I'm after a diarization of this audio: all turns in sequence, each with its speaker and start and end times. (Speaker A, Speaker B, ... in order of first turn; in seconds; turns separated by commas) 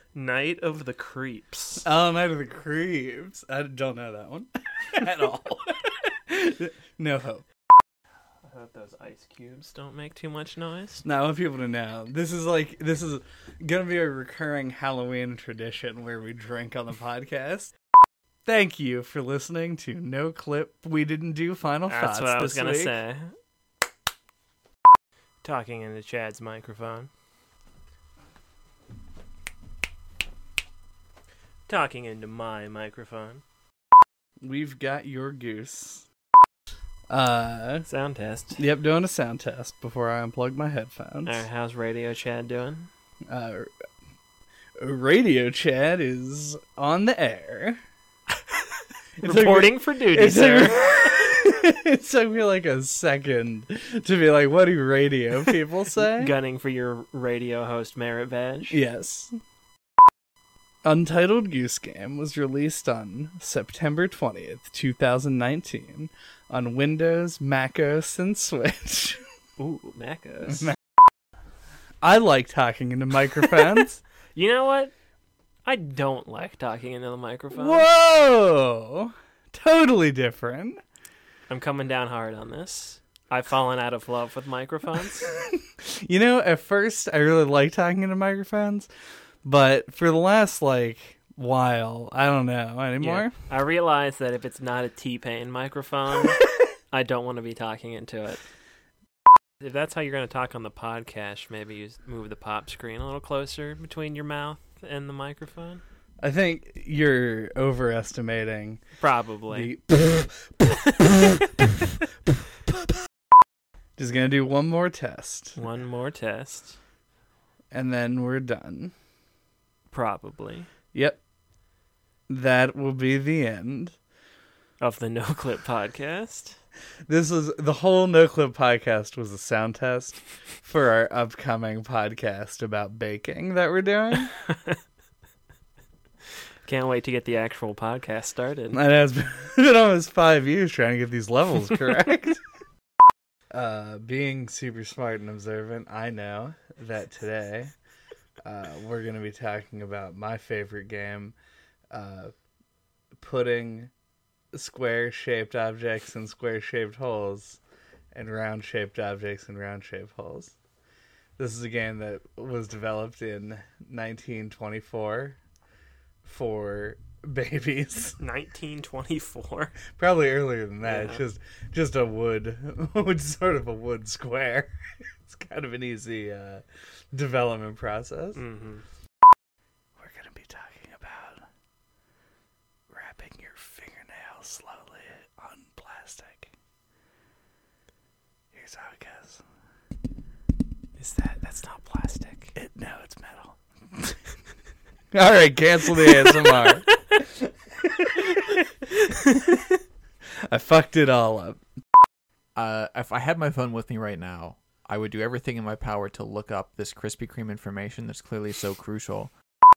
Speaker A: 0.1-1.9, Speaker B: 1.8-7.4, Speaker A: 8.4-11.0, Speaker B: 11.0-17.7, Speaker B: 18.4-22.9, Speaker A: 21.9-23.3, Speaker A: 25.4-27.1, Speaker A: 31.7-33.4, Speaker B: 34.4-36.0, Speaker B: 37.1-37.9, Speaker A: 37.9-38.6, Speaker B: 38.6-41.5, Speaker A: 41.2-42.9, Speaker B: 43.3-43.7, Speaker B: 44.8-47.8, Speaker B: 49.2-56.3, Speaker A: 49.2-51.1, Speaker A: 55.9-58.8, Speaker B: 58.7-59.3, Speaker B: 60.8-69.2, Speaker A: 69.6-70.7, Speaker B: 70.5-70.8, Speaker B: 72.0-74.0, Speaker A: 74.3-74.9, Speaker A: 75.6-77.9, Speaker B: 77.5-80.8, Speaker A: 81.5-85.3, Speaker B: 85.0-88.9, Speaker B: 89.4-93.3, Speaker A: 93.0-98.4, Speaker A: 99.6-105.8, Speaker B: 106.2-108.8, Speaker A: 109.0-109.7, Speaker B: 109.5-111.4, Speaker B: 114.0-115.6, Speaker A: 115.6-116.8, Speaker B: 117.7-118.9, Speaker A: 119.9-120.7, Speaker B: 120.9-121.2, Speaker B: 122.3-124.0, Speaker A: 124.8-126.5, Speaker B: 127.1-134.3, Speaker A: 134.4-134.8, Speaker A: 136.7-138.8, Speaker B: 138.7-142.4, Speaker B: 143.5-147.7, Speaker B: 148.4-151.3, Speaker B: 151.9-152.3, Speaker B: 153.2-153.9, Speaker B: 154.5-157.6, Speaker B: 158.1-160.5, Speaker B: 161.4-165.4, Speaker B: 166.2-168.2, Speaker A: 168.2-169.8, Speaker B: 169.9-178.4, Speaker A: 170.8-171.2, Speaker A: 178.3-178.8, Speaker B: 180.0-181.4, Speaker B: 182.9-186.5, Speaker B: 188.5-189.4, Speaker A: 191.0-192.5, Speaker B: 192.5-194.1, Speaker B: 195.1-197.3, Speaker A: 196.1-196.9, Speaker B: 198.0-198.5, Speaker A: 199.2-199.7, Speaker B: 200.5-201.6, Speaker C: 202.5-209.3